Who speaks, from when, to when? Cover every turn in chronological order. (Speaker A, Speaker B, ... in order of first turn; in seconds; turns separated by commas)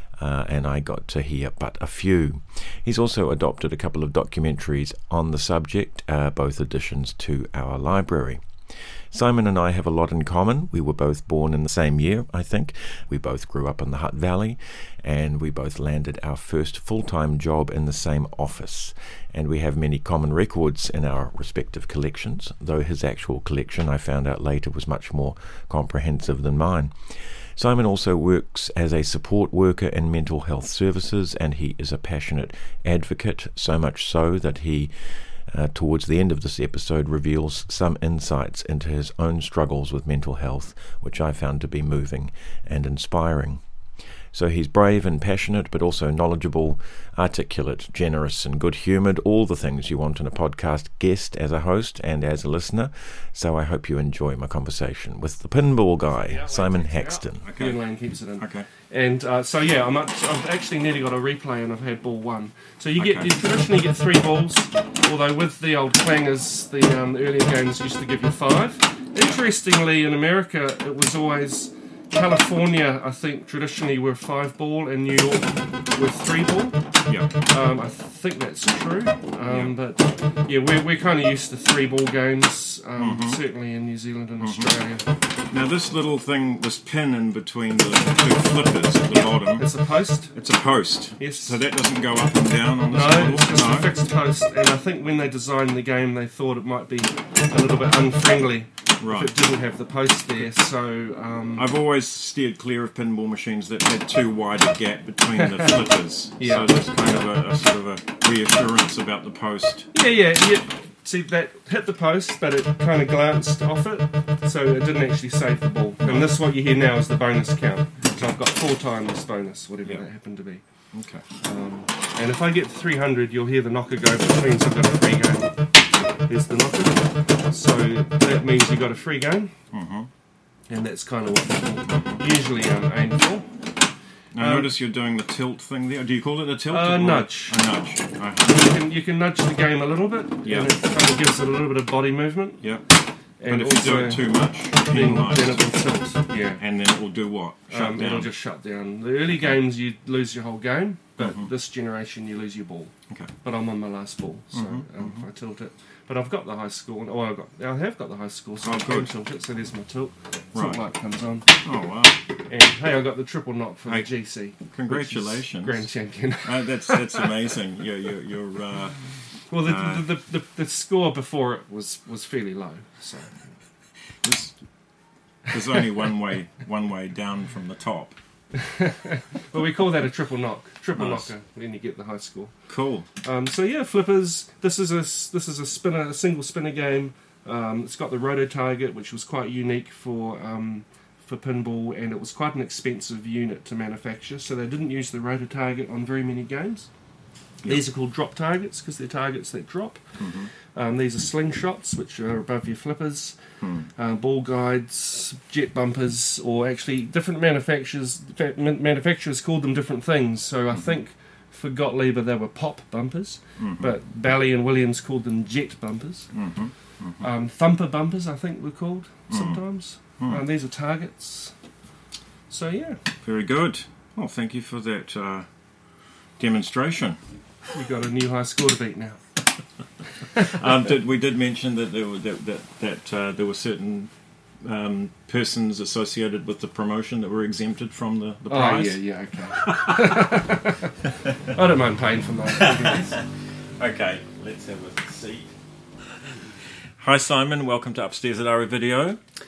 Speaker A: 0.2-8.4, Speaker A: 9.1-43.6, Speaker A: 44.3-57.5, Speaker B: 56.1-76.8, Speaker C: 57.4-57.8, Speaker C: 58.4-58.7, Speaker C: 63.0-63.3, Speaker C: 77.1-77.3, Speaker B: 77.4-85.1, Speaker C: 83.0-83.4, Speaker C: 84.4-84.7, Speaker C: 85.5-89.7, Speaker B: 89.6-90.3, Speaker C: 90.3-93.9, Speaker B: 91.2-91.6, Speaker B: 92.9-101.7, Speaker C: 99.0-99.4, Speaker C: 101.6-109.9, Speaker B: 105.3-105.8, Speaker B: 106.4-106.7, Speaker B: 109.9-120.6, Speaker C: 116.0-116.3, Speaker C: 120.9-121.2, Speaker B: 121.4-125.7, Speaker B: 126.3-129.5, Speaker C: 129.7-130.1, Speaker B: 130.7-133.5, Speaker C: 131.9-132.2, Speaker C: 134.3-138.8, Speaker B: 134.4-134.7, Speaker B: 136.7-137.6, Speaker B: 138.4-142.6, Speaker C: 140.4-140.7, Speaker C: 142.6-142.9, Speaker B: 143.4-146.6, Speaker C: 143.4-145.7, Speaker C: 146.6-148.3, Speaker B: 147.7-161.6, Speaker C: 151.2-151.5, Speaker C: 154.5-155.2, Speaker C: 158.6-159.1, Speaker C: 160.5-160.8, Speaker C: 161.6-162.2, Speaker B: 162.5-167.3, Speaker C: 164.7-165.8, Speaker C: 166.4-170.0, Speaker B: 169.5-173.6, Speaker C: 174.2-174.6, Speaker C: 175.5-178.2, Speaker B: 178.6-182.5, Speaker C: 180.9-181.3, Speaker C: 182.7-183.1, Speaker B: 183.2-196.9, Speaker B: 197.7-203.3, Speaker C: 200.2-200.5, Speaker C: 203.6-203.9, Speaker B: 203.9-216.3, Speaker C: 213.6-213.9, Speaker C: 216.3-217.3, Speaker B: 217.2-221.5, Speaker C: 219.3-219.6, Speaker B: 222.5-223.0, Speaker C: 223.2-225.5, Speaker C: 226.4-227.2, Speaker B: 227.7-229.2, Speaker B: 230.2-230.7, Speaker C: 230.3-240.4, Speaker B: 238.5-240.9, Speaker C: 241.2-241.6, Speaker B: 241.5-243.2, Speaker C: 242.5-245.5, Speaker C: 247.0-249.2